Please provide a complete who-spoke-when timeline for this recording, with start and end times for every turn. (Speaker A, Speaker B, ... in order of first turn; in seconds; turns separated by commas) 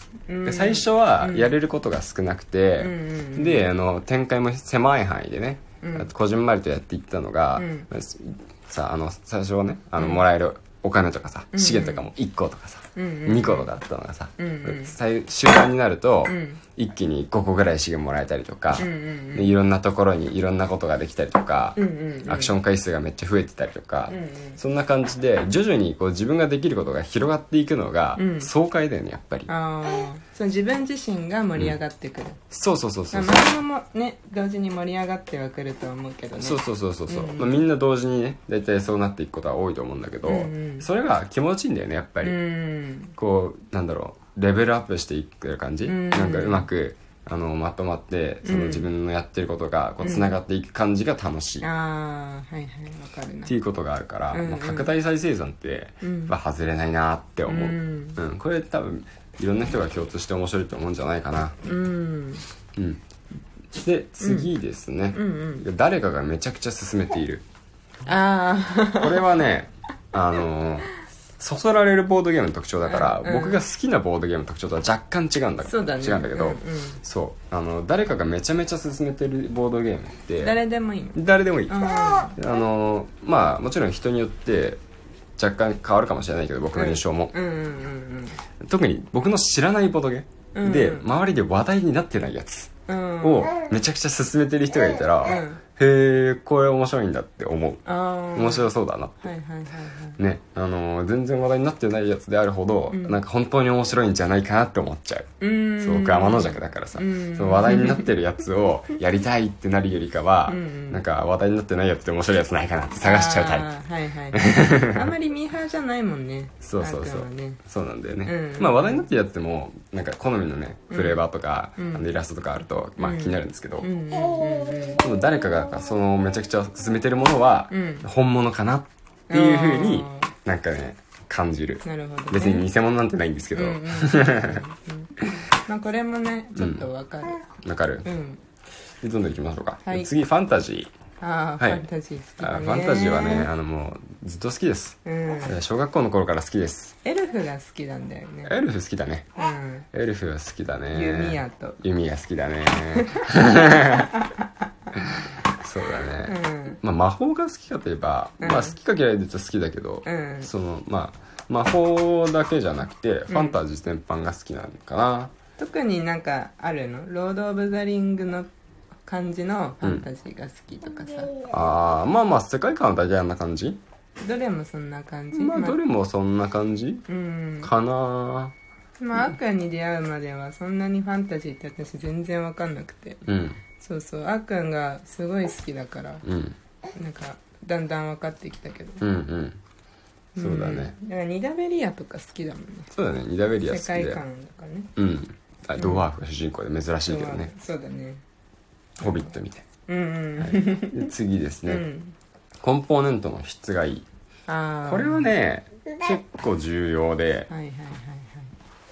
Speaker A: 0.3-1.6, Speaker B: 0.4-29.5, Speaker A: 2.8-3.7, Speaker A: 5.8-6.1, Speaker A: 7.5-7.9, Speaker A: 10.0-10.2, Speaker A: 11.5-12.1, Speaker A: 12.9-13.7, Speaker A: 14.4-14.9, Speaker A: 16.2-16.6, Speaker A: 18.7-19.6, Speaker A: 21.8-22.6, Speaker A: 24.1-24.6, Speaker A: 28.1-28.5, Speaker A: 29.5-32.4, Speaker B: 32.5-33.5, Speaker A: 33.1-37.6, Speaker B: 36.4-42.4, Speaker A: 40.2-40.9, Speaker A: 42.2-43.1, Speaker B: 43.1-51.7, Speaker A: 45.8-46.7, Speaker A: 48.4-48.9, Speaker A: 50.0-50.3, Speaker A: 51.6-53.5, Speaker B: 53.5-61.6, Speaker A: 54.3-54.9, Speaker A: 56.0-56.3, Speaker A: 57.5-58.2, Speaker A: 61.6-62.4, Speaker B: 62.8-63.0, Speaker B: 63.7-67.4, Speaker A: 64.2-64.5, Speaker A: 65.1-65.6, Speaker A: 68.0-69.3, Speaker B: 69.0-80.6, Speaker A: 72.8-73.6, Speaker A: 75.6-77.0, Speaker A: 80.4-82.3, Speaker B: 81.1-84.8, Speaker B: 85.4-87.3, Speaker A: 86.7-88.4, Speaker B: 88.6-99.3, Speaker A: 90.5-91.1, Speaker A: 92.9-93.5, Speaker A: 95.2-95.6, Speaker A: 97.8-98.7, Speaker A: 99.2-100.2, Speaker B: 100.2-113.7, Speaker A: 102.9-103.2, Speaker A: 105.4-108.1, Speaker A: 110.5-111.0, Speaker A: 113.0-117.6, Speaker B: 114.3-115.0, Speaker B: 116.6-123.9, Speaker A: 118.2-119.1, Speaker A: 120.9-121.2, Speaker A: 121.8-122.1, Speaker A: 123.0-125.0, Speaker B: 125.0-134.6, Speaker A: 127.7-128.0, Speaker A: 129.3-130.3, Speaker A: 131.8-132.6, Speaker A: 133.5-137.4, Speaker B: 136.6-136.9, Speaker B: 137.6-138.1, Speaker A: 138.0-138.4, Speaker B: 139.0-140.9, Speaker A: 139.8-140.1, Speaker A: 141.2-143.5, Speaker B: 141.6-141.8, Speaker B: 142.4-146.9, Speaker A: 145.0-145.5, Speaker A: 147.0-148.5, Speaker B: 148.4-149.3, Speaker A: 149.3-149.8, Speaker B: 149.9-154.1, Speaker A: 150.9-151.8, Speaker A: 152.9-153.2, Speaker B: 154.9-165.3, Speaker A: 156.2-156.8, Speaker A: 158.4-158.8, Speaker A: 160.0-160.5, Speaker A: 163.3-163.6, Speaker A: 165.6-168.5, Speaker A: 169.0-171.3, Speaker B: 171.5-173.8, Speaker A: 174.2-175.8, Speaker B: 175.3-177.1, Speaker A: 177.1-177.7, Speaker B: 177.6-178.5, Speaker A: 179.0-183.2, Speaker B: 183.2-183.6, Speaker A: 183.8-186.2, Speaker B: 186.2-186.6, Speaker A: 186.9-189.0, Speaker B: 189.0-189.6, Speaker A: 190.3-192.9, Speaker B: 190.4-190.9, Speaker B: 192.9-194.2, Speaker A: 193.7-194.9, Speaker B: 194.9-197.5, Speaker A: 195.8-196.0, Speaker A: 197.1-198.2, Speaker B: 199.0-199.7, Speaker A: 199.0-199.3, Speaker A: 199.9-201.1, Speaker B: 200.4-201.8, Speaker A: 201.7-202.1, Speaker B: 202.6-204.1, Speaker A: 204.5-205.3, Speaker B: 204.8-207.5, Speaker A: 207.5-208.5